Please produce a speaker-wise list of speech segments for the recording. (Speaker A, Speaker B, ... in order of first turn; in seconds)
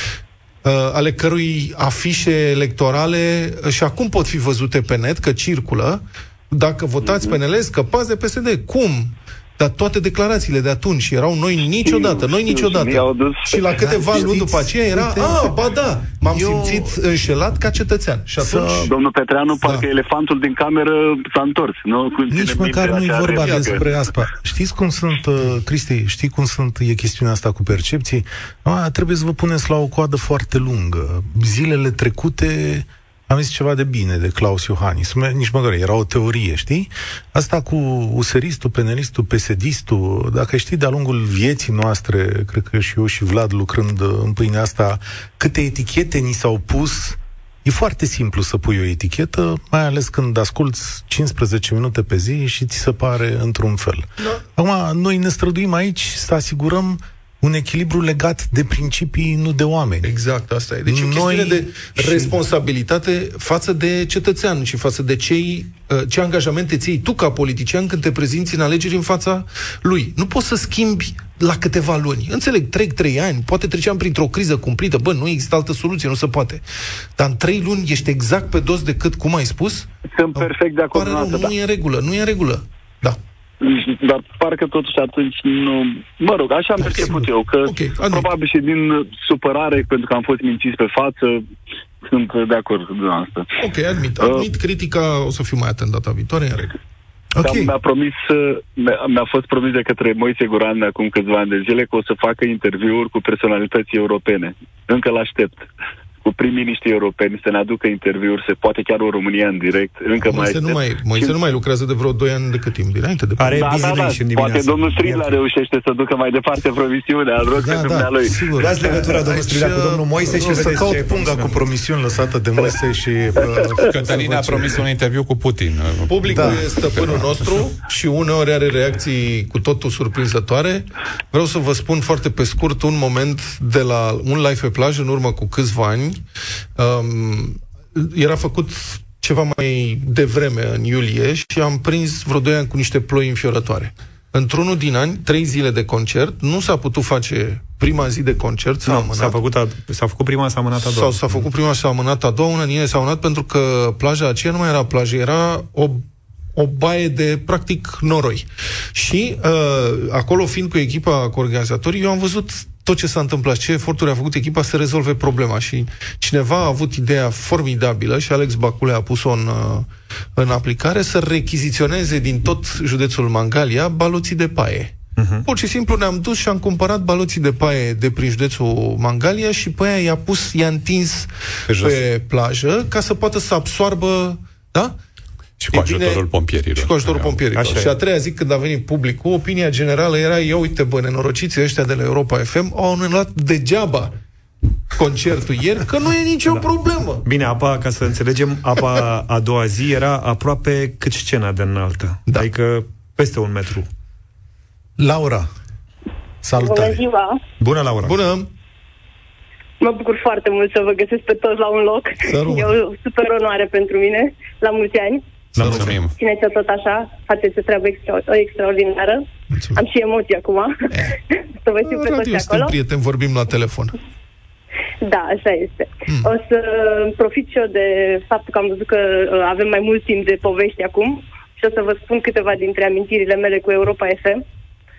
Speaker A: 0.6-18.9, 19.6-19.9, 23.4-23.9, 60.0-76.6, 77.2-83.2, 86.8-88.3, 93.6-96.7, 110.2-114.0, 120.3-120.8, 126.1-136.2, 136.8-149.4, 150.8-156.0, 156.6-184.9, 185.7-194.2, 194.9-197.3, 208.0-208.5, 212.3-212.7, 215.6-216.0, 219.5-219.8, 220.9-221.2, 221.9-223.9, 226.1-226.3
Speaker B: 7.0-7.3, 11.7-14.3, 18.9-23.9, 80.1-81.5, 83.6-91.4, 92.0-93.5, 94.2-94.5, 97.4-105.7, 106.2-111.4, 113.5-118.4
Speaker C: 13.8-15.5, 16.3-16.9, 18.4-18.9, 22.3-60.1, 60.9-62.4, 97.4-97.7, 117.5-124.8, 126.3-126.6, 205.0-205.5, 206.4-207.0
Speaker D: 113.4-115.4, 118.6-121.7, 148.8-151.4, 175.2-175.4, 187.5-188.0, 197.2-203.9, 207.6-208.2, 215.6-216.0
Speaker E: 123.9-127.3, 181.7-182.0, 185.6-187.4, 215.7-216.2
Speaker F: 206.6-207.4, 209.8-215.2, 216.1-222.8, 225.0-234.4